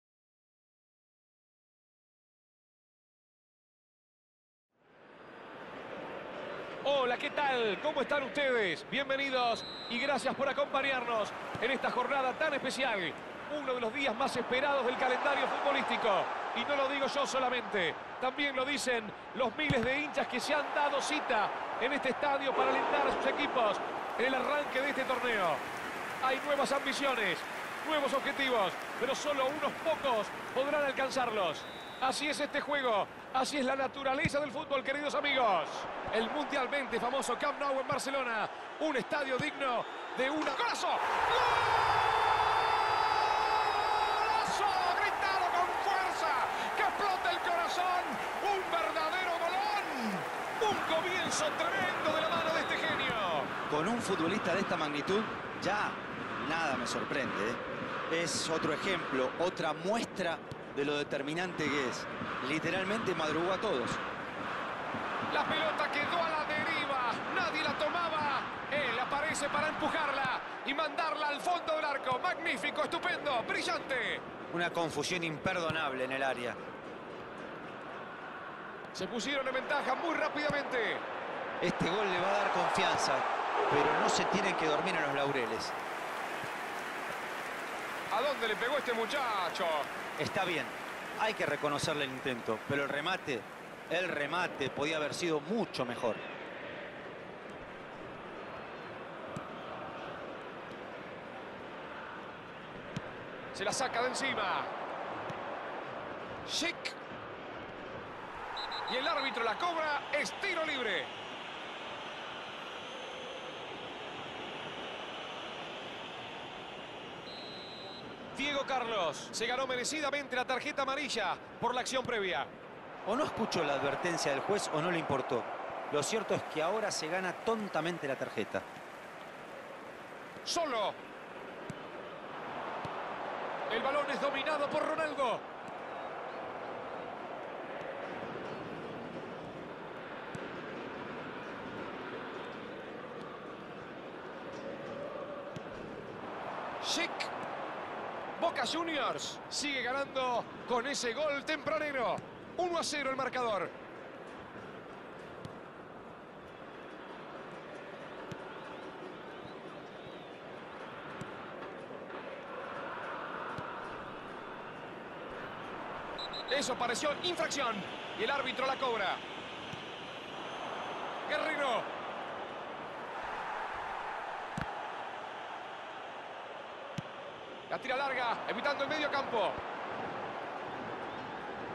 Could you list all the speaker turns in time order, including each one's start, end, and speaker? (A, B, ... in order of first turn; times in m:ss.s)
0:06.8-0:25.6 A
0:26.2-0:53.5 A
0:53.7-1:04.0 B
1:05.3-1:14.2 A
1:14.5-1:16.6 B
1:18.9-1:21.0 A
1:21.6-1:25.8 B
1:28.1-1:29.9 A
1:30.2-1:36.2 B
1:43.5-1:44.7 A
1:46.5-1:47.0 A
1:48.9-1:51.1 A
1:58.3-2:02.5 A
2:03.1-2:08.6 B
2:10.4-2:11.0 A
2:13.7-2:15.4 A
2:26.8-2:27.3 A
2:28.4-2:33.7 A
2:46.5-2:49.2 A
2:51.3-2:51.9 A
2:57.7-2:59.6 A